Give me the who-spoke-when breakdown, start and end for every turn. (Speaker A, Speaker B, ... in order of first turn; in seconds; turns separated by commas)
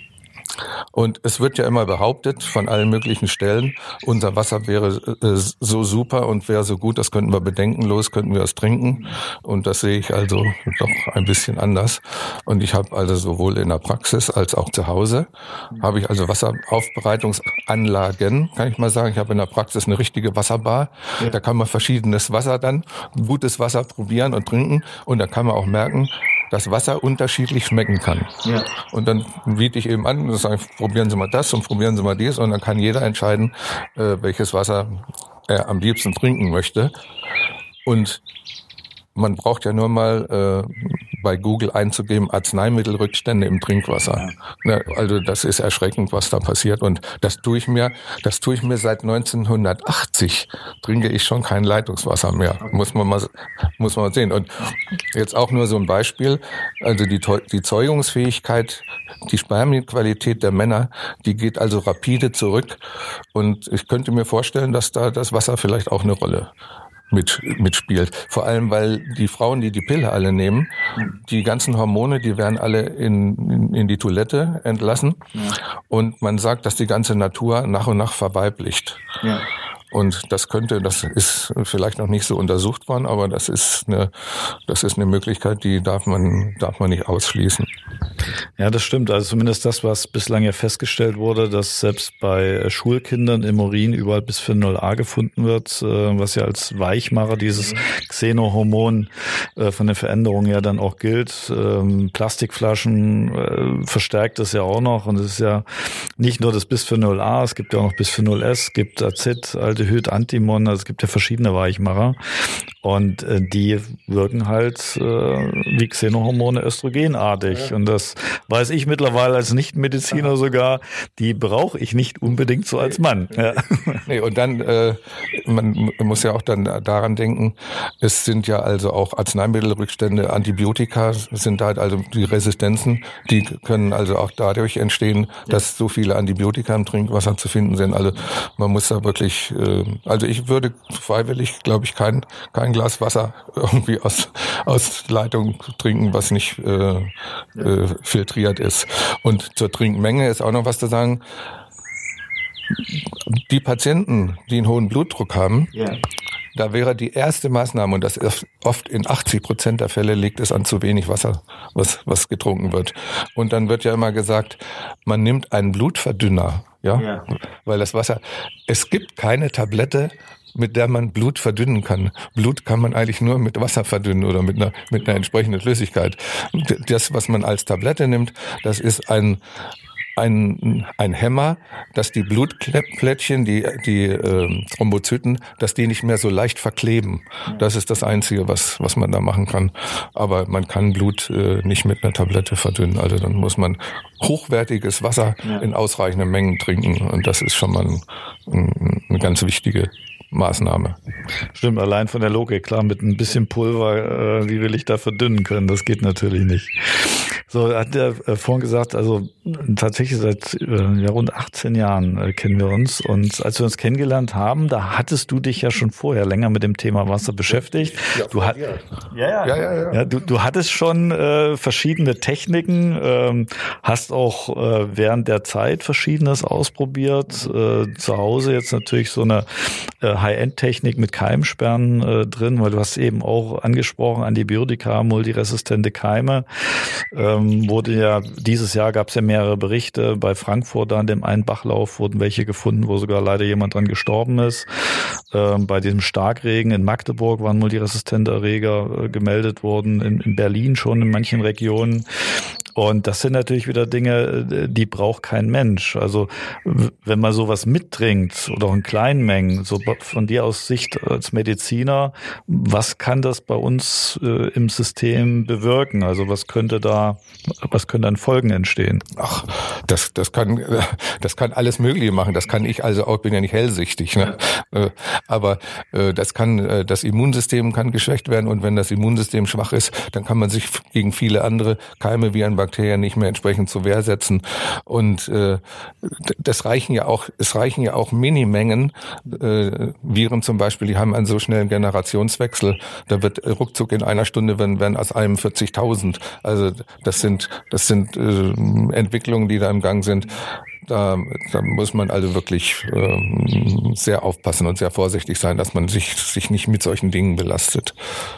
Speaker A: 0.9-36.9, Speaker B: 28.4-28.7, Speaker A: 37.9-38.2, Speaker A: 39.1-62.8, Speaker A: 63.3-66.5, Speaker A: 67.1-70.7, Speaker A: 71.2-75.3, Speaker A: 75.9-79.0, Speaker A: 79.9-87.7, Speaker B: 88.6-112.2, Speaker B: 112.8-124.1, Speaker A: 124.0-151.2, Speaker A: 153.3-155.7, Speaker B: 155.7-156.0, Speaker A: 156.6-167.1, Speaker B: 167.0-167.3, Speaker A: 167.7-179.4, Speaker A: 180.2-201.0, Speaker B: 201.6-218.6, Speaker A: 218.1-218.8, Speaker B: 219.1-244.7, Speaker A: 219.4-220.0, Speaker B: 245.3-269.1, Speaker A: 269.2-308.0